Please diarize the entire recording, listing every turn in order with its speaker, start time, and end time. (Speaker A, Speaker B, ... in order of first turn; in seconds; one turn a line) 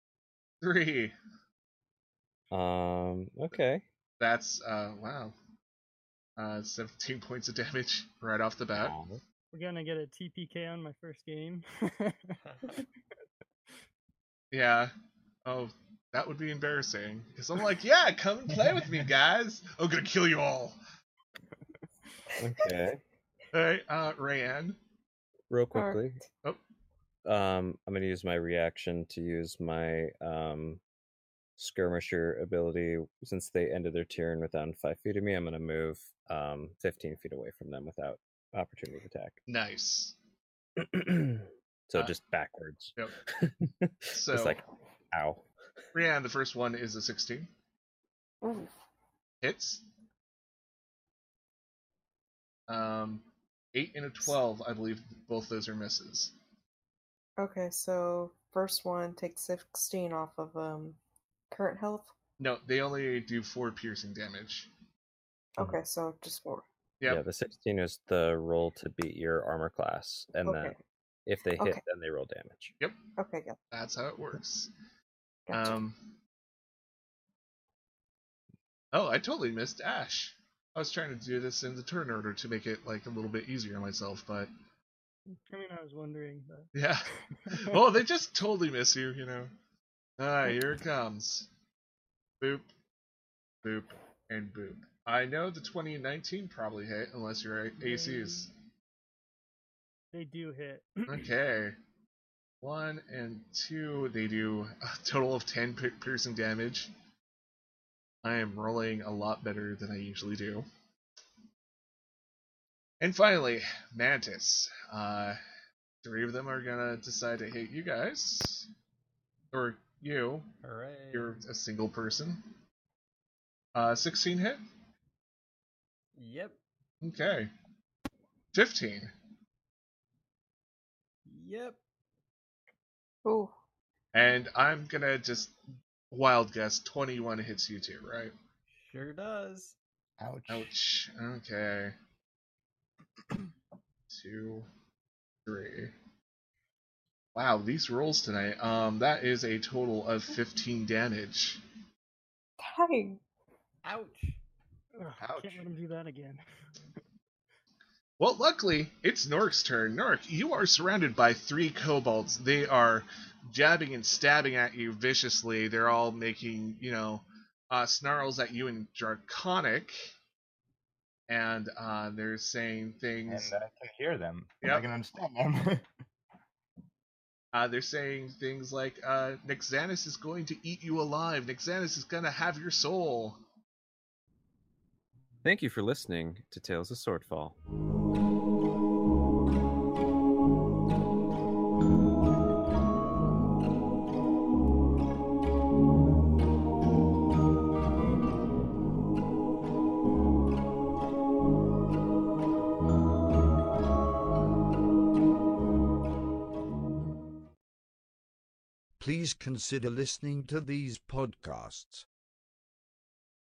Speaker A: 0.6-1.1
Speaker B: 2.5-3.8
Speaker A: 4.2-5.3
Speaker A: 6.4-8.9
Speaker B: 8.7-9.2
Speaker C: 9.5-12.4
Speaker A: 14.5-14.9
Speaker A: 15.4-20.8
Speaker B: 22.4-23.0
Speaker A: 23.5-24.8
Speaker B: 25.5-26.2
Speaker D: 25.7-26.0
Speaker B: 27.2-30.8
Speaker B: 31.6-39.4
Speaker A: 39.5-40.1
Speaker B: 40.8-45.4
Speaker A: 44.1-44.6
Speaker A: 45.9-47.5
Speaker D: 48.4-48.7
Speaker A: 49.4-49.8
Speaker A: 52.7-56.3
Speaker D: 57.4-61.0
Speaker D: 61.5-62.1
Speaker A: 62.4-64.7
Speaker D: 65.6-66.7
Speaker B: 67.1-70.7
Speaker D: 70.4-70.8
Speaker B: 71.2-72.7
Speaker D: 73.2-73.5
Speaker A: 73.7-74.7
Speaker D: 75.5-75.8
Speaker A: 75.5-76.2
Speaker A: 78.9-84.5
Speaker C: 85.5-86.7
Speaker A: 86.7-89.5
Speaker C: 87.4-87.8
Speaker A: 90.2-91.5
Speaker A: 92.4-92.7
Speaker A: 93.6-98.5
Speaker C: 100.1-101.3
Speaker A: 101.1-101.8
Speaker A: 102.6-106.9
Speaker A: 108.2-110.7
Speaker A: 113.0-115.4
Speaker A: 116.0-118.7
Speaker A: 119.5-120.5
Speaker E: 120.6-121.4
Speaker A: 121.1-122.5
Speaker A: 123.7-124.6
Speaker E: 126.2-126.6
Speaker A: 127.0-127.5
Speaker A: 128.5-129.1
Speaker E: 131.2-131.8
Speaker D: 133.2-133.5
Speaker A: 134.1-135.5
Speaker A: 136.1-138.3
Speaker E: 138.7-139.8
Speaker F: 140.2-140.7
Speaker A: 140.5-141.9
Speaker A: 144.1-144.7
Speaker A: 145.4-145.9
Speaker A: 147.3-151.6
Speaker D: 152.6-153.2
Speaker E: 153.8-154.4
Speaker C: 155.0-156.4
Speaker F: 155.2-155.7
Speaker A: 158.2-170.1
Speaker A: 171.3-173.5
Speaker F: 173.3-175.9
Speaker A: 177.5-183.4
Speaker B: 185.4-187.6
Speaker G: 209.0-212.1